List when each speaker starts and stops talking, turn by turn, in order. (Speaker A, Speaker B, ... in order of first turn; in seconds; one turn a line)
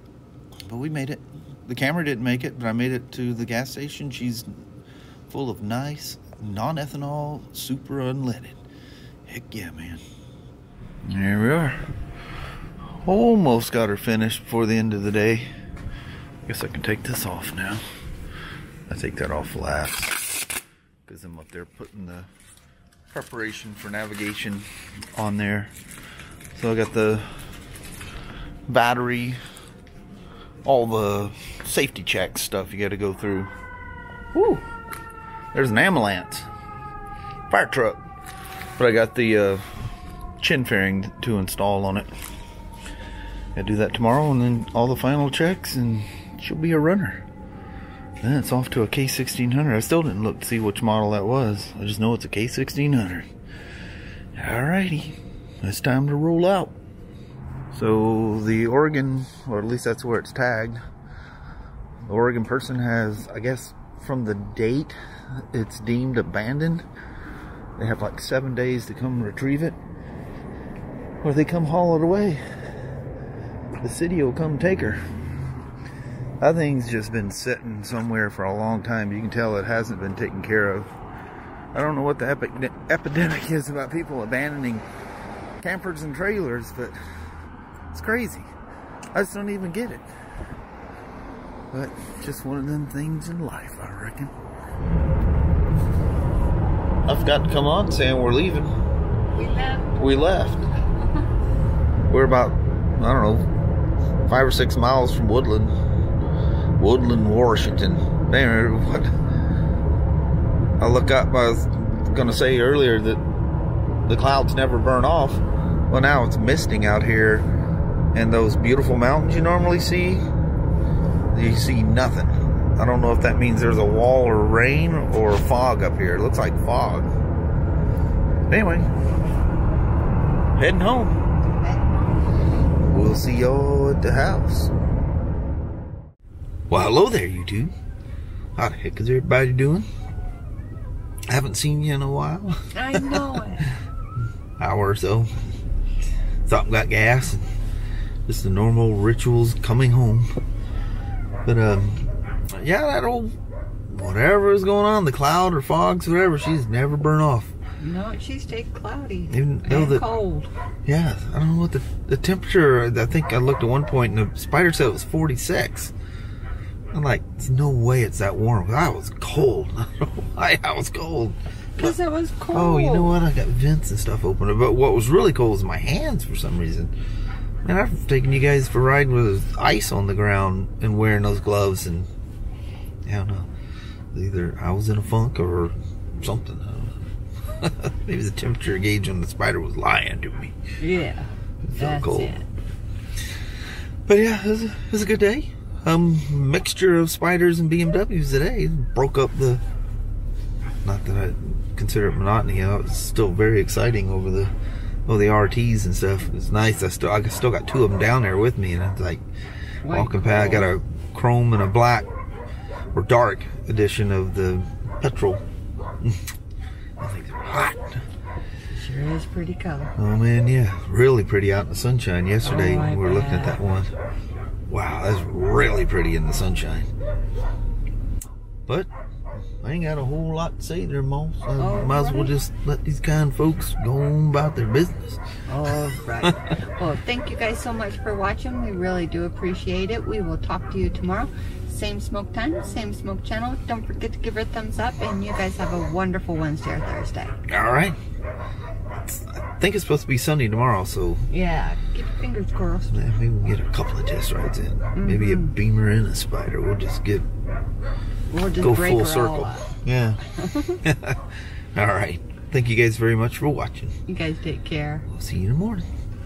Speaker A: 0.7-4.5
Speaker A: 5.3-8.6
Speaker A: 9.2-10.0
Speaker A: 11.0-11.8
Speaker A: 12.9-15.5
Speaker A: 16.4-17.8
Speaker A: 18.9-20.3
Speaker A: 21.0-22.3
Speaker A: 23.1-25.7
Speaker A: 26.5-27.3
Speaker A: 28.7-29.4
Speaker A: 30.6-33.5
Speaker A: 34.3-34.6
Speaker A: 35.5-36.5
Speaker A: 37.5-38.0
Speaker A: 38.8-39.7
Speaker A: 40.4-42.1
Speaker A: 43.5-47.2
Speaker A: 48.2-53.3
Speaker A: 54.4-56.7
Speaker A: 57.7-60.8
Speaker A: 62.0-65.0
Speaker A: 65.5-66.8
Speaker A: 67.8-69.8
Speaker A: 71.2-72.4
Speaker A: 73.8-75.0
Speaker A: 76.4-80.9
Speaker A: 81.7-84.8
Speaker A: 85.6-87.0
Speaker A: 87.9-88.5
Speaker A: 89.1-90.0
Speaker A: 91.7-94.3
Speaker A: 97.0-98.7
Speaker B: 99.3-100.1
Speaker A: 99.9-100.7
Speaker A: 102.1-103.5
Speaker A: 104.3-105.8
Speaker A: 106.8-109.1
Speaker A: 110.8-113.2
Speaker A: 114.0-117.5
Speaker A: 118.1-120.3
Speaker A: 121.3-127.1
Speaker A: 128.5-128.9
Speaker A: 130.6-131.2
Speaker B: 131.4-131.9
Speaker A: 132.9-134.7
Speaker A: 136.7-137.7
Speaker A: 138.6-139.9
Speaker A: 141.3-143.4
Speaker B: 142.7-143.7
Speaker A: 144.6-145.3
Speaker A: 146.4-147.5
Speaker A: 148.2-150.3
Speaker A: 151.4-153.3
Speaker A: 153.9-157.5
Speaker B: 157.8-160.5
Speaker A: 159.3-160.0
Speaker A: 160.8-165.9
Speaker A: 166.9-171.9
Speaker B: 171.8-173.2
Speaker A: 172.5-176.9
Speaker A: 177.6-182.1
Speaker A: 183.0-183.5
Speaker A: 184.1-187.0
Speaker A: 187.5-190.6
Speaker B: 190.8-192.4
Speaker A: 191.6-192.4
Speaker A: 194.1-199.6
Speaker A: 200.8-204.5
Speaker A: 205.1-209.2
Speaker B: 209.8-210.7
Speaker A: 209.9-212.1
Speaker A: 212.9-215.4
Speaker A: 217.0-218.0
Speaker B: 218.7-219.9
Speaker A: 219.9-223.9
Speaker B: 222.4-223.6
Speaker A: 224.7-226.9
Speaker A: 229.6-235.2
Speaker B: 231.6-232.3
Speaker B: 235.5-247.4
Speaker A: 236.2-236.5
Speaker A: 247.5-248.0
Speaker A: 249.0-251.3
Speaker B: 251.3-253.0
Speaker A: 252.9-257.3
Speaker B: 254.9-255.5
Speaker B: 258.3-259.7
Speaker A: 258.6-260.2
Speaker B: 260.4-260.8
Speaker A: 260.8-264.0
Speaker B: 264.1-265.1
Speaker A: 265.1-265.9